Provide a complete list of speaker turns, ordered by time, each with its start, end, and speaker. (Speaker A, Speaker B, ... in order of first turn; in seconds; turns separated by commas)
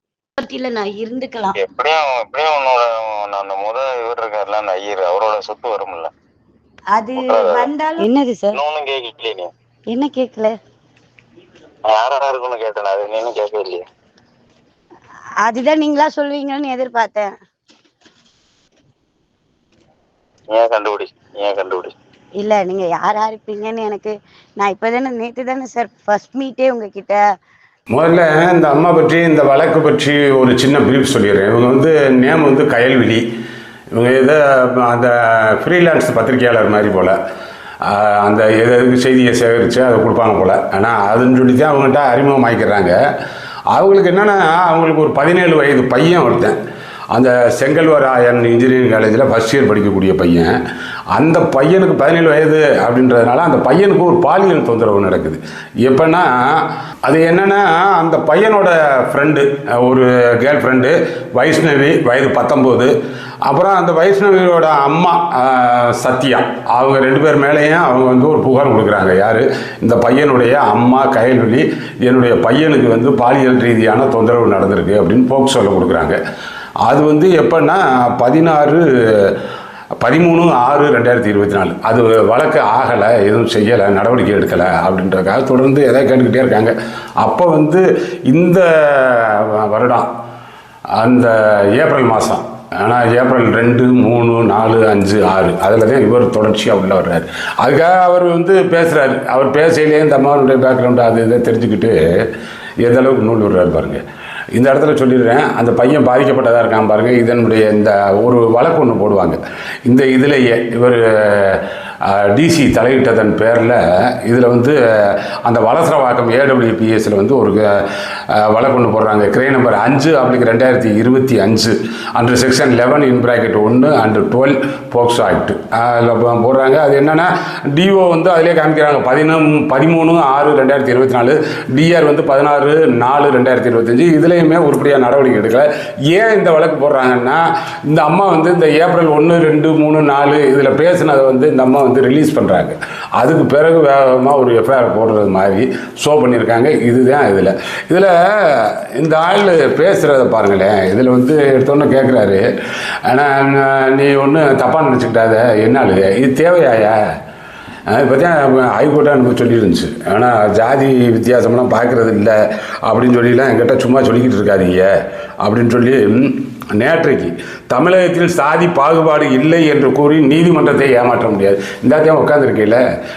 Speaker A: 0.4-1.6, Speaker B: 1.6-6.1, Speaker A: 6.9-8.6, Speaker B: 7.2-7.7, Speaker B: 8.5-9.5, Speaker A: 9.9-10.5, Speaker B: 11.9-13.8, Speaker A: 15.4-17.3, Speaker B: 20.5-21.9, Speaker A: 22.4-27.2, Speaker C: 27.9-33.2, Speaker C: 33.9-37.1, Speaker C: 37.8-43.0, Speaker C: 43.7-46.6, Speaker C: 47.1-50.5, Speaker C: 51.1-62.9, Speaker C: 63.5-76.2, Speaker C: 76.8-79.3, Speaker C: 80.0-90.1, Speaker C: 91.0-102.0, Speaker C: 102.8-104.0, Speaker C: 104.5-114.8, Speaker C: 115.4-117.6, Speaker C: 118.4-152.4, Speaker C: 153.1-157.0, Speaker C: 157.9-164.9, Speaker C: 165.4-172.8